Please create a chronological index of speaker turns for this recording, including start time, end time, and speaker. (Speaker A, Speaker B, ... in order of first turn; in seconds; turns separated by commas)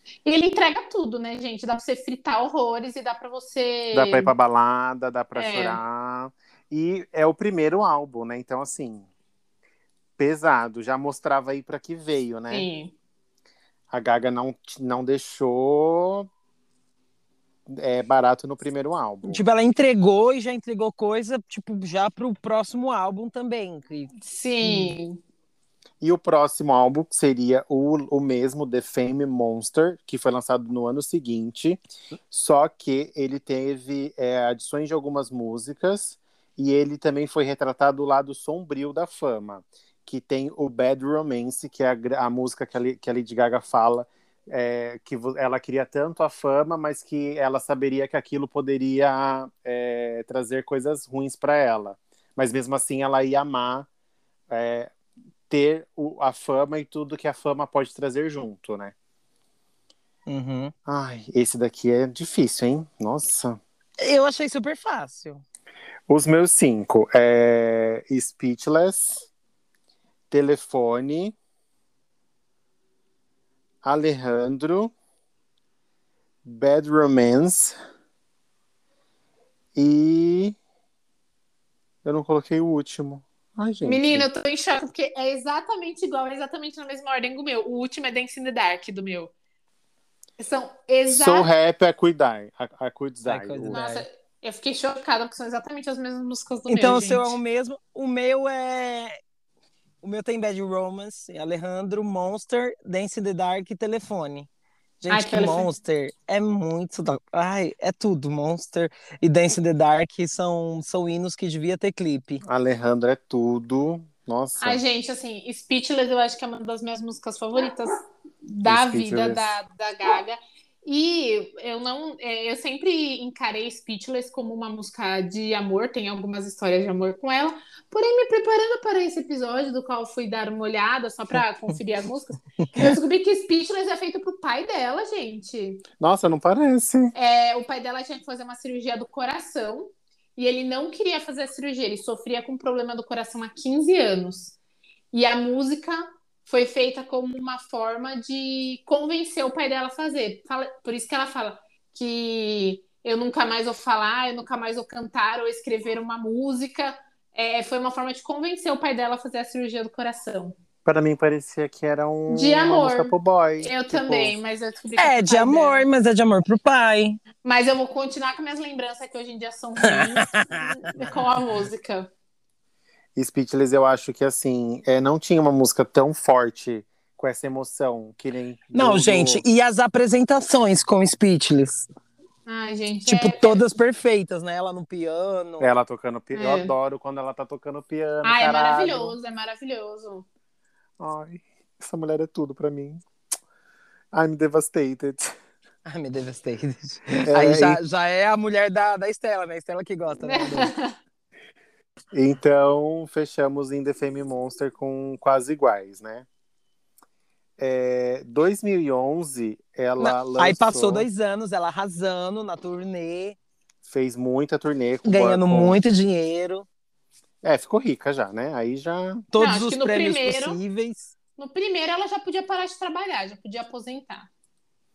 Speaker A: 0.2-4.3, Speaker B: 3.9-9.1, Speaker A: 5.3-5.8, Speaker B: 10.2-12.7, Speaker A: 12.5-12.9, Speaker B: 13.9-16.3, Speaker B: 17.7-19.4, Speaker C: 19.2-24.9, Speaker A: 24.2-25.2, Speaker B: 26.0-53.9, Speaker B: 54.5-54.9, Speaker B: 55.5-58.9, Speaker C: 60.2-60.7, Speaker B: 60.9-63.6, Speaker C: 64.0-65.4, Speaker B: 66.1-69.3, Speaker B: 70.3-71.3, Speaker B: 73.8-74.9, Speaker B: 76.4-77.7, Speaker B: 79.7-80.6, Speaker B: 82.0-84.3, Speaker A: 83.8-89.3, Speaker A: 90.4-91.5, Speaker B: 91.1-93.8, Speaker C: 93.2-94.0, Speaker A: 93.7-97.4, Speaker C: 96.7-99.2, Speaker C: 100.0-104.5, Speaker C: 105.0-112.4, Speaker A: 105.1-105.7, Speaker B: 112.4-114.8, Speaker A: 114.6-135.8, Speaker B: 118.6-119.6, Speaker B: 136.0-137.1, Speaker A: 137.1-144.5, Speaker A: 145.1-160.5, Speaker B: 160.8-164.4, Speaker A: 162.3-165.8, Speaker C: 165.0-167.2, Speaker A: 167.4-172.1, Speaker C: 169.8-171.2, Speaker B: 173.1-179.4, Speaker C: 178.7-181.8, Speaker A: 182.4-183.6, Speaker C: 183.1-185.7, Speaker B: 185.6-189.2, Speaker A: 186.3-186.7, Speaker A: 188.2-190.2, Speaker B: 191.0-193.0, Speaker B: 194.1-195.3, Speaker C: 195.8-200.7, Speaker B: 197.3-197.8, Speaker A: 200.2-200.9, Speaker B: 202.1-206.2, Speaker B: 207.6-211.1, Speaker C: 210.0-213.4, Speaker B: 213.8-215.8, Speaker C: 215.0-216.7, Speaker B: 217.4-219.2, Speaker C: 219.3-221.1, Speaker A: 219.4-220.6, Speaker A: 221.3-224.3